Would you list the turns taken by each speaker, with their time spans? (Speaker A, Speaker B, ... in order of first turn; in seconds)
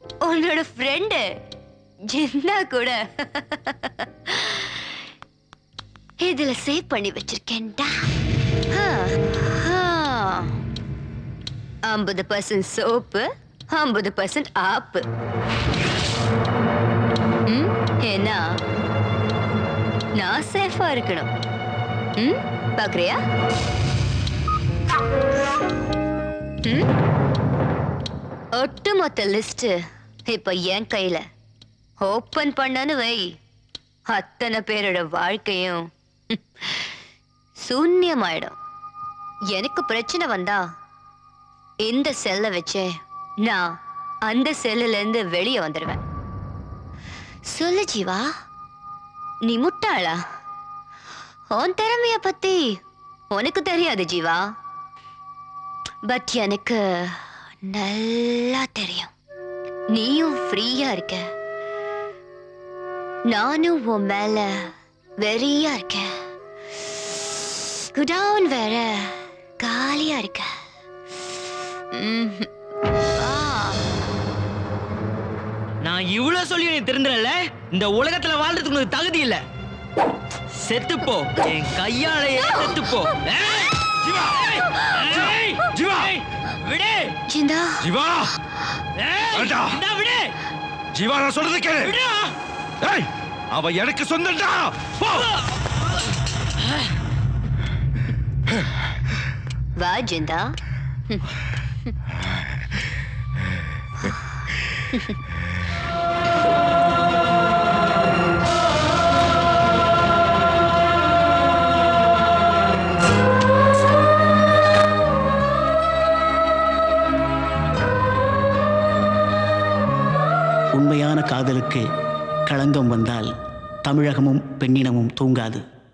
Speaker A: 0.2-1.3, 2.1-4.9, 6.2-8.1, 8.7-10.5, 11.8-15.0, 17.5-18.6, 20.2-21.3, 22.2-23.2, 28.6-29.8, 30.3-31.2, 32.0-33.4, 34.1-36.9, 37.6-38.5, 39.5-40.6, 41.8-46.0, 47.5-48.3, 49.4-50.2, 51.5-52.8, 53.3-54.4, 56.1-59.1, 59.9-61.2, 63.3-64.7, 65.2-66.1, 67.9-70.5, 71.9-72.5, 73.2-73.8, 87.3-87.8, 99.8-100.5
Speaker B: 75.8-79.4, 80.6-83.8, 84.3-87.1, 89.0-90.3, 91.8-92.3
Speaker C: 84.0-84.4, 85.1-86.1, 87.8-88.3, 89.3-89.8, 90.9-91.9, 92.8-95.3
Speaker D: 120.8-121.8, 122.5-123.3, 123.8-125.6